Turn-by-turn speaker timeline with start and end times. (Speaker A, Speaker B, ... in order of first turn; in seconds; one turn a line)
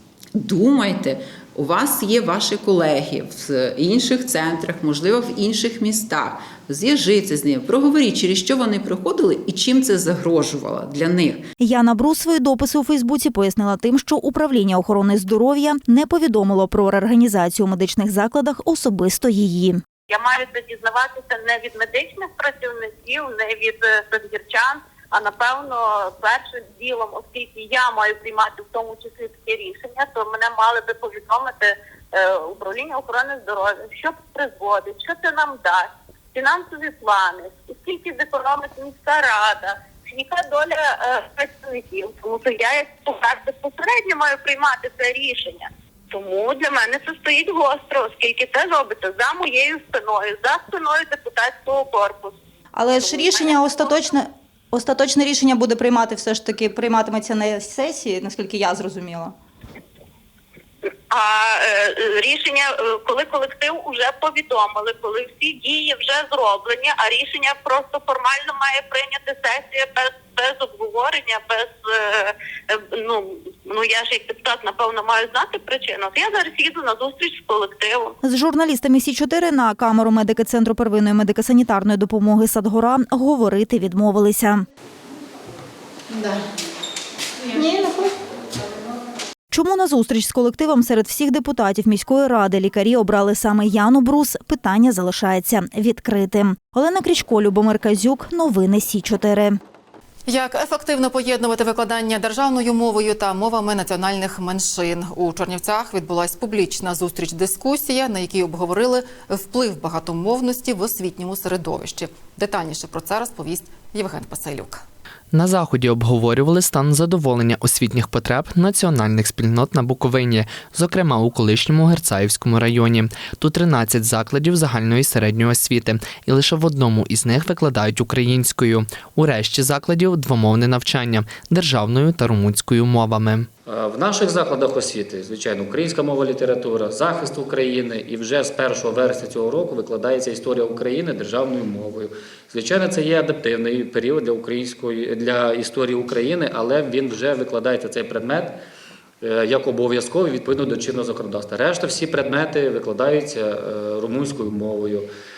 Speaker A: 0.3-11.5
Speaker B: 11.6-19.8
Speaker C: 20.1-52.4
Speaker D: 52.8-59.3
Speaker C: 53.1-54.0
Speaker C: 61.1-78.2
Speaker B: 78.2-84.6
Speaker D: 87.5-88.1
Speaker B: 89.5-99.6
Speaker E: 100.3-114.8
Speaker F: 115.3-133.5
Speaker G: 133.7-148.6
Speaker G: 149.2-155.1